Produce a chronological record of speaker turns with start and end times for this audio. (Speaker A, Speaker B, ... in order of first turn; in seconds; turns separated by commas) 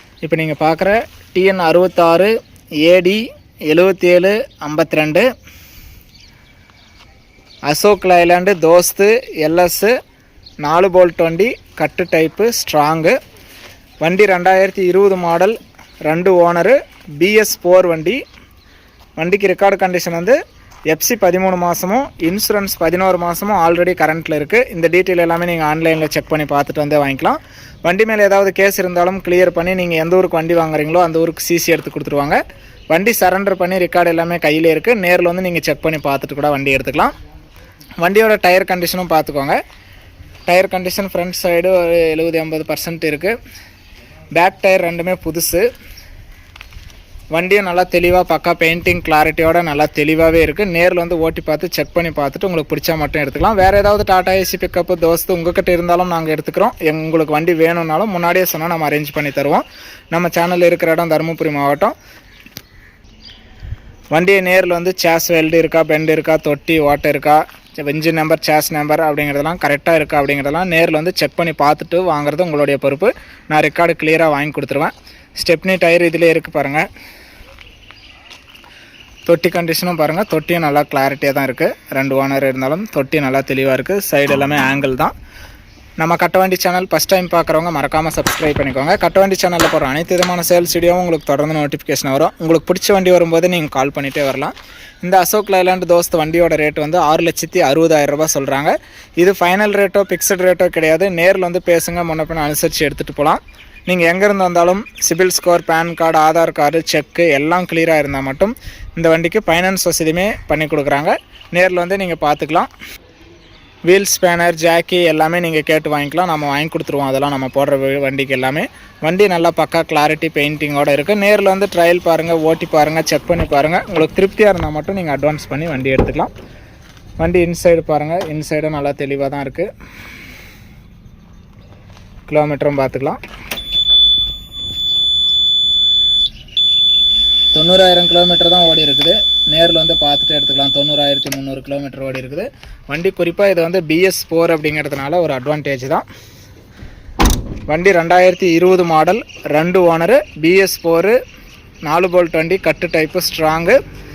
Speaker A: 0.2-5.2, Speaker A: 7.7-9.9, Speaker A: 10.6-13.2, Speaker A: 14.0-18.2, Speaker A: 19.2-20.4, Speaker A: 20.9-32.4, Speaker A: 32.9-37.1, Speaker A: 38.0-39.6, Speaker A: 40.5-43.3, Speaker A: 44.3-45.6, Speaker A: 47.3-61.9, Speaker A: 64.1-76.8, Speaker A: 79.2-85.1, Speaker A: 86.0-112.7, Speaker A: 113.9-126.3, Speaker A: 127.2-129.7, Speaker A: 132.3-133.2, Speaker A: 137.5-146.0, Speaker A: 147.7-151.2, Speaker A: 151.8-153.8